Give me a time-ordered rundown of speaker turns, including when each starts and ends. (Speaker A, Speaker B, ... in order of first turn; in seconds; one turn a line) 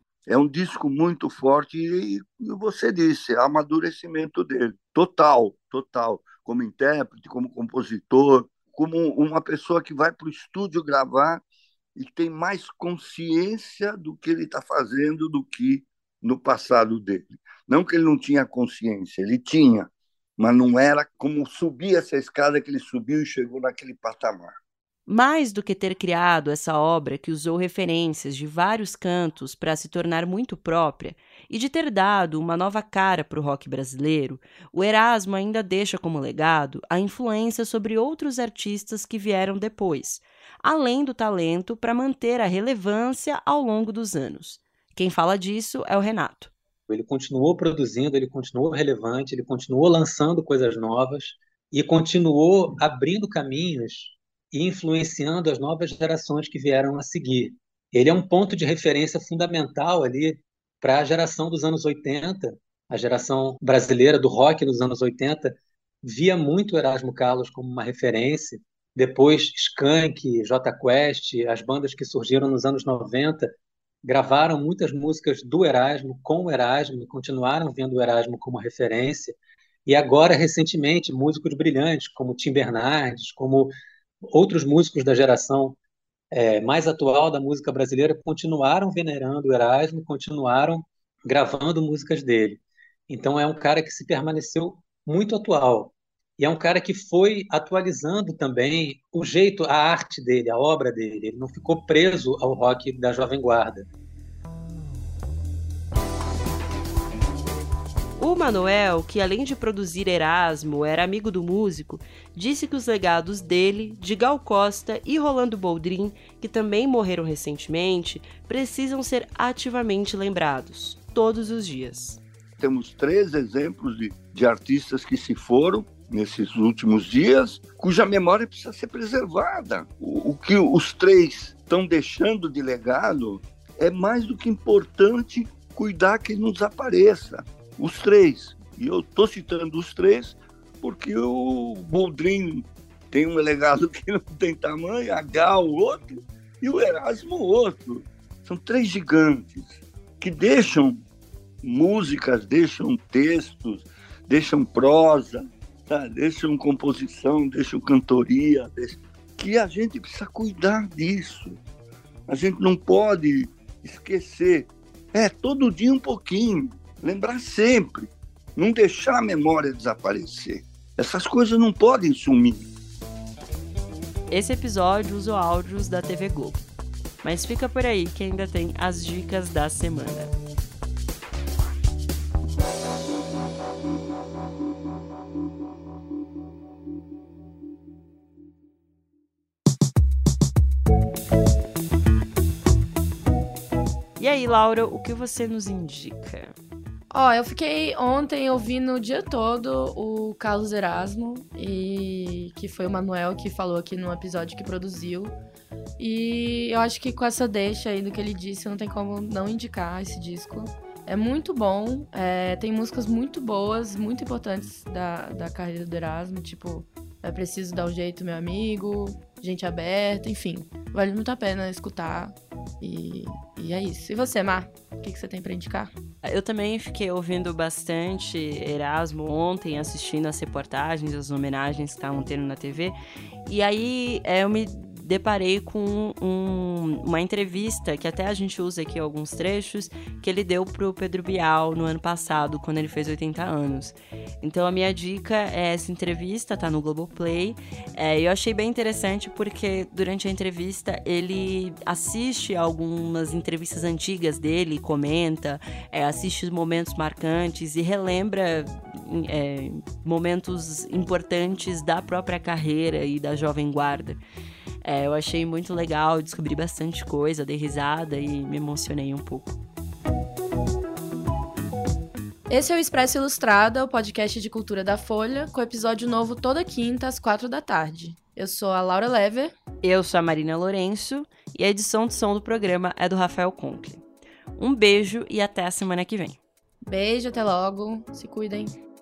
Speaker A: 0.3-11.4
Speaker A: 11.9-24.5
Speaker B: 25.1-46.5
Speaker C: 46.9-73.5
Speaker C: 74.0-83.7
Speaker C: 84.3-85.8
Speaker C: 86.3-103.9
Speaker B: 108.2-122.2
Speaker A: 122.6-151.0
Speaker A: 151.6-161.6
Speaker A: 162.3-172.7
Speaker B: 174.3-176.6
Speaker B: 177.2-180.3
Speaker B: 194.2-196.5
Speaker D: 197.1-205.3
Speaker D: 206.0-225.9
Speaker B: 226.2-264.2
Speaker B: 264.8-269.6
Speaker D: 272.5-279.5
Speaker B: 279.8-284.0
Speaker B: 284.6-286.4
Speaker D: 286.9-288.7